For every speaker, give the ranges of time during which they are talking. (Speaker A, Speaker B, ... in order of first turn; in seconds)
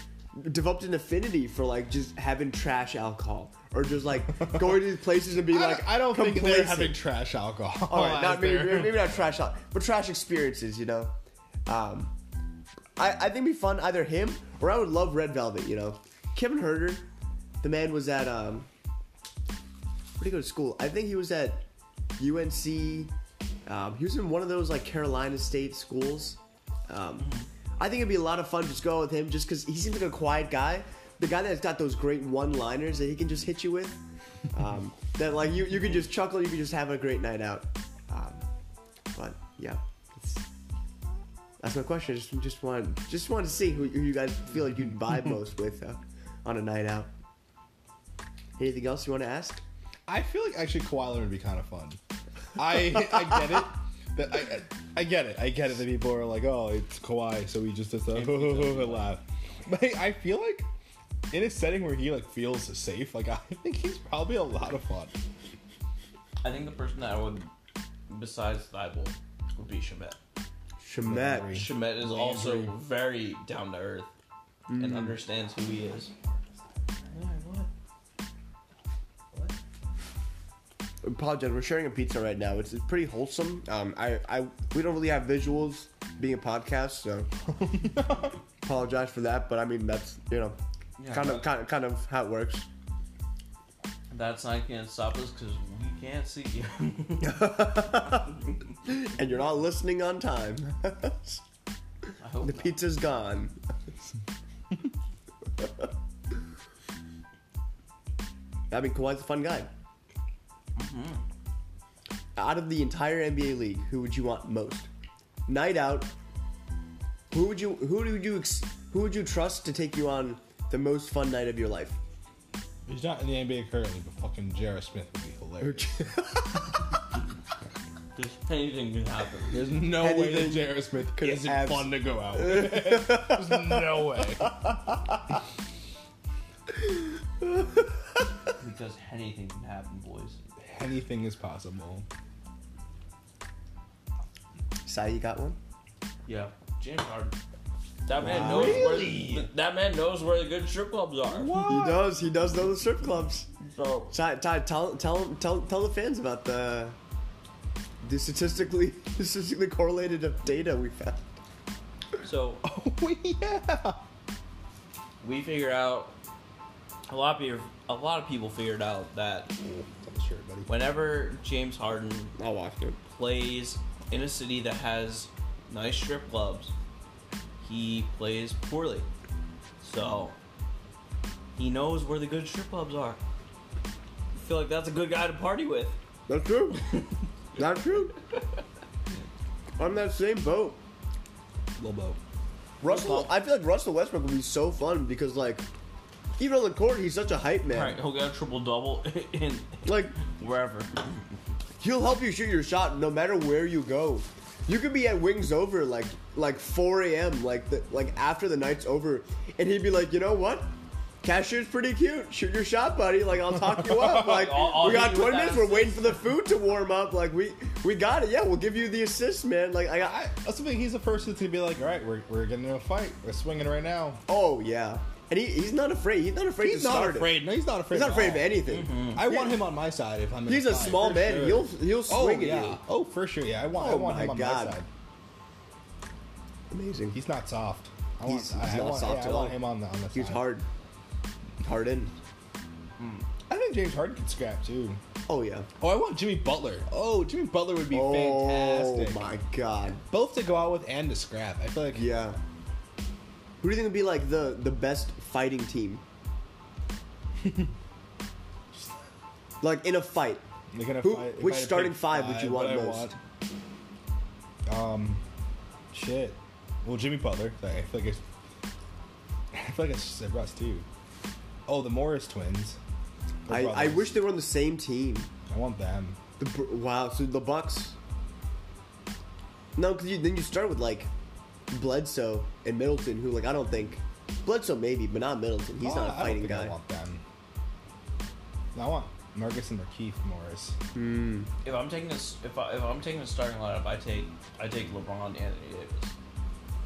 Speaker A: 0.3-7.0, 7.9-11.1, 11.7-12.1, 13.0-17.0, 17.6-18.7, 20.2-21.6, 22.2-23.1, 23.6-34.0, 34.5-38.4, 39.1-40.5, 41.6-47.1, 48.6-49.6, 70.8-71.7, 74.7-75.2, 81.0-87.3, 88.6-90.6, 91.1-92.7, 97.2-98.3, 98.8-101.4, 102.4-104.1, 105.6-105.9, 108.7-109.7, 112.3-114.9, 115.5-116.1, 117.3-122.0, 125.6-126.8, 129.8-135.4, 137.4-137.8, 144.8-145.6, 148.2-149.0, 151.6-153.5, 154.1-156.9, 158.0-161.3, 172.4-173.0, 186.3-186.8, 187.6-188.1, 189.8-190.8, 192.8-195.6, 196.4-198.0, 199.8-200.1, 201.8-210.7, 211.2-220.2, 224.3-227.3, 227.9-229.6, 230.5-232.8, 233.7-234.8, 236.7-237.2, 238.3-239.6, 240.1-240.6, 241.6-242.1, 245.3-245.7, 247.9-250.0, 251.9-252.4, 253.6-256.0, 259.6-260.4, 261.0-263.1, 273.5-275.3, 276.4-277.9, 279.8-281.1, 281.7-286.7, 290.9-291.5
Speaker B: 5.5-9.2, 50.1-52.0, 52.5-60.7, 61.3-65.1, 71.0-72.7, 87.6-88.3, 122.9-126.1, 129.5-134.5, 140.6-142.1, 148.2-149.5, 151.3-152.1, 162.6-164.0, 169.6-170.7, 191.8-192.2, 214.0-214.5, 220.0-224.2, 226.6-234.9, 237.1-240.5, 243.5-245.0, 245.8-249.3, 250.1-252.0, 257.4-257.7, 260.7-263.2, 264.7-265.2, 265.9-268.2, 269.5-270.9, 271.7-272.8, 273.4-274.2, 275.5-276.2, 285.8-287.2, 288.7-290.8
Speaker C: 58.1-59.1, 66.4-67.5, 68.1-70.2, 71.5-74.1, 74.8-76.1, 77.1-77.7, 91.0-91.5, 94.1-97.5, 102.2-102.8, 110.8-111.2, 128.2-129.6, 138.6-140.5, 146.2-147.3, 148.1-151.6, 153.6-154.1, 162.2-162.6, 165.2-166.1, 167.1-169.5, 170.7-172.3, 173.0-176.7, 177.6-179.1, 179.8-180.3, 181.6-183.2, 184.3-186.0, 186.8-187.1, 188.3-188.6, 192.8-193.3, 197.7-201.0, 214.0-216.2, 228.7-229.2, 243.0-243.2, 291.6-296.1